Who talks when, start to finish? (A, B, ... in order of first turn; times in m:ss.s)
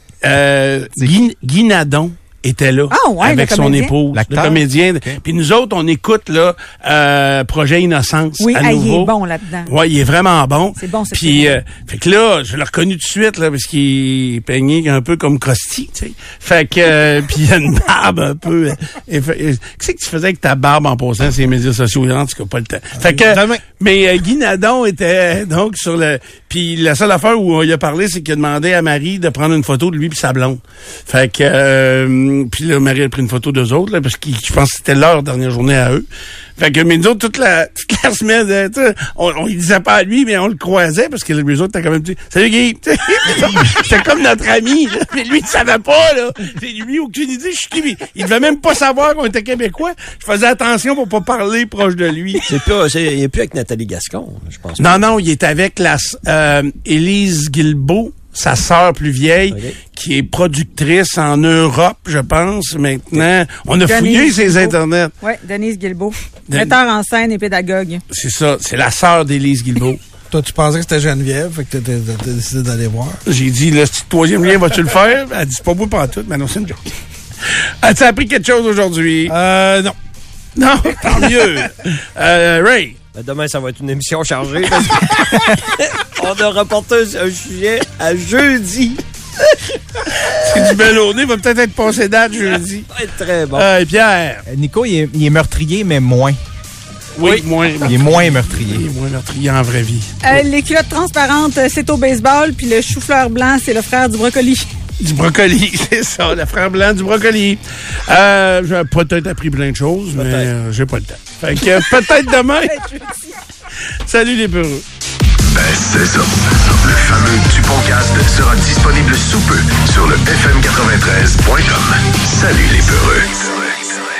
0:00.2-0:09.1 A
0:02.9-0:03.9 B
0:04.1-0:04.6 C
0:08.4-0:09.7 B
0:09.7-0:36.1 A
0:10.8-0:11.6 B
0:23.0-0:23.6 D
0:36.6-0:52.5 A
0:52.5-0:55.1 E
0:54.8-1:05.1 A
0:59.5-0:59.8 E
1:03.8-1:08.0 B
1:06.5-1:06.8 A
1:08.1-1:10.0 A
1:10.3-1:13.2 D
1:13.3-1:16.9 A
1:17.5-1:19.4 A
1:19.3-1:20.0 D
1:20.6-1:23.0 A
1:23.1-1:29.0 E
1:30.3-1:32.9 A
1:32.5-1:33.7 E
1:33.5-1:34.4 A
1:34.5-1:36.4 C
1:37.2-1:40.2 A
1:37.8-1:38.9 C
1:40.2-1:44.7 B
1:45.0-1:52.8 A
1:50.2-1:50.5 E
1:52.7-1:53.3 B
1:54.1-1:54.8 A
1:55.6-2:03.4 F